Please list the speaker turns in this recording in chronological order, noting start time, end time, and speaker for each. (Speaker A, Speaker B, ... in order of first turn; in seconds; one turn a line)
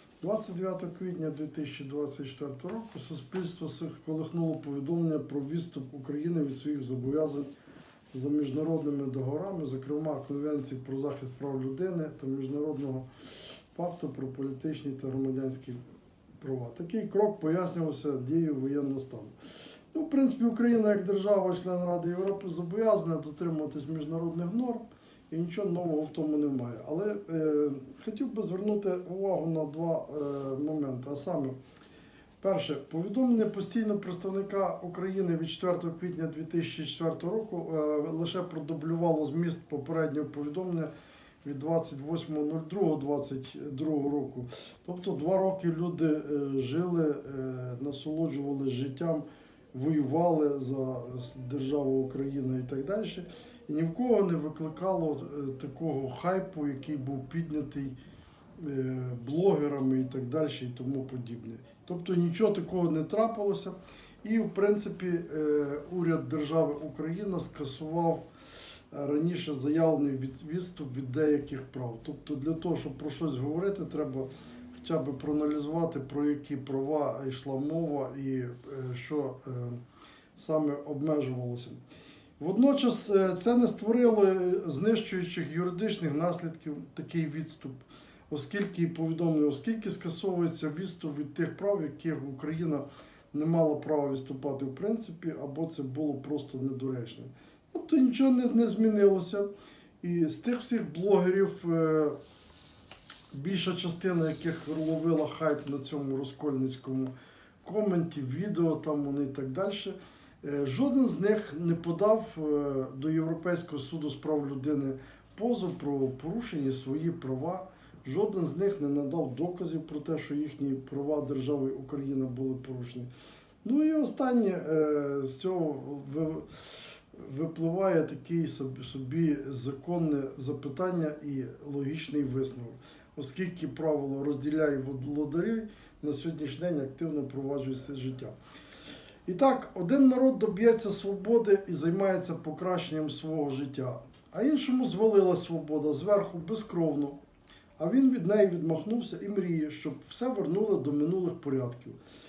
Speaker A: 0.2-7.5
Speaker A: 8.1-13.1
Speaker A: 13.7-15.8
Speaker A: 16.4-19.3
Speaker A: 19.9-31.6
Speaker A: 32.4-40.9
Speaker A: 41.4-58.0
Speaker A: 58.6-68.2
Speaker A: 68.9-79.8
Speaker A: 80.3-81.8
Speaker A: 82.4-99.5
Speaker A: 100.0-102.2
Speaker A: 103.3-107.1
Speaker A: 107.6-123.1
Speaker A: 123.6-138.3
Speaker A: 139.2-147.2
Speaker A: 147.8-152.0